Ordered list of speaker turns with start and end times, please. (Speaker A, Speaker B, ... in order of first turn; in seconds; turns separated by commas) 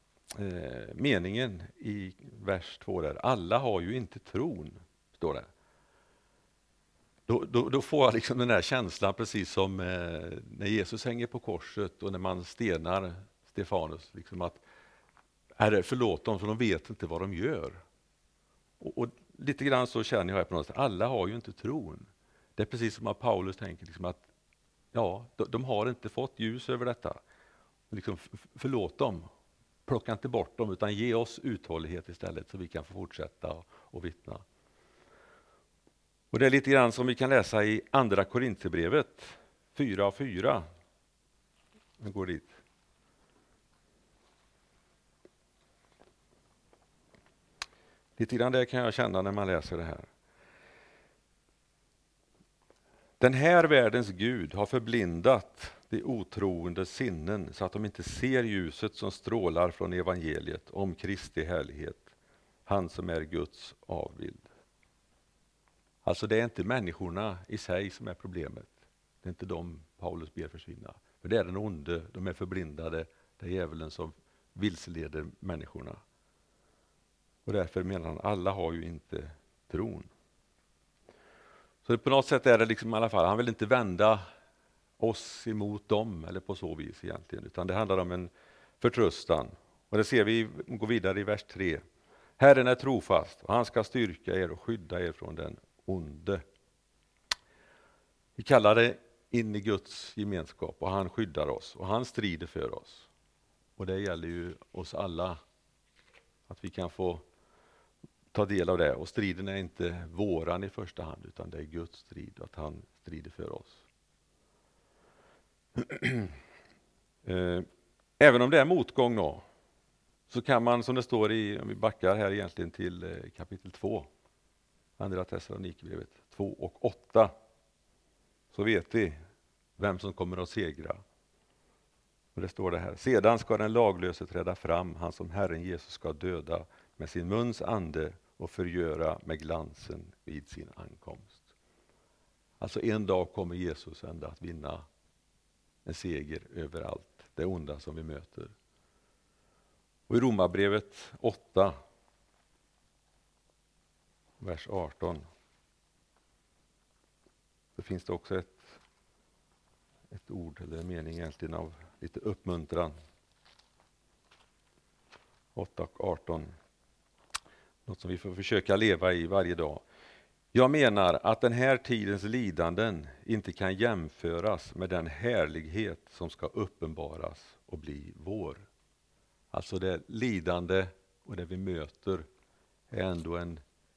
Speaker A: 0.3-5.5, Speaker A: 7.3-14.6, Speaker A: 15.6-17.8, Speaker A: 18.8-24.2, Speaker A: 24.9-27.2, Speaker A: 27.9-29.3, Speaker A: 29.9-34.4, Speaker A: 36.3-40.6, Speaker A: 42.0-42.6, Speaker A: 48.2-50.0, Speaker A: 53.2-62.1, Speaker A: 62.7-64.5, Speaker A: 66.0-76.0, Speaker A: 77.5-80.1, Speaker A: 81.8-84.2, Speaker A: 85.0-91.8, Speaker A: 92.4-96.4, Speaker A: 98.4-103.1, Speaker A: 103.8-105.4, Speaker A: 106.5-107.2, Speaker A: 108.3-113.8, Speaker A: 115.8-116.3, Speaker A: 117.2-117.7, Speaker A: 118.2-119.4, Speaker A: 120.3-124.1, Speaker A: 125.0-127.3, Speaker A: 128.5-129.2, Speaker A: 129.8-131.0, Speaker A: 132.3-141.4, Speaker A: 142.6-144.8, Speaker A: 145.8-148.5, Speaker A: 150.1-151.8, Speaker A: 154.4-155.2, Speaker A: 157.8-158.8, Speaker A: 160.1-162.9, Speaker A: 165.5-166.5, Speaker A: 167.8-169.8, Speaker A: 170.5-178.6, Speaker A: 179.5-182.2, Speaker A: 182.9-183.6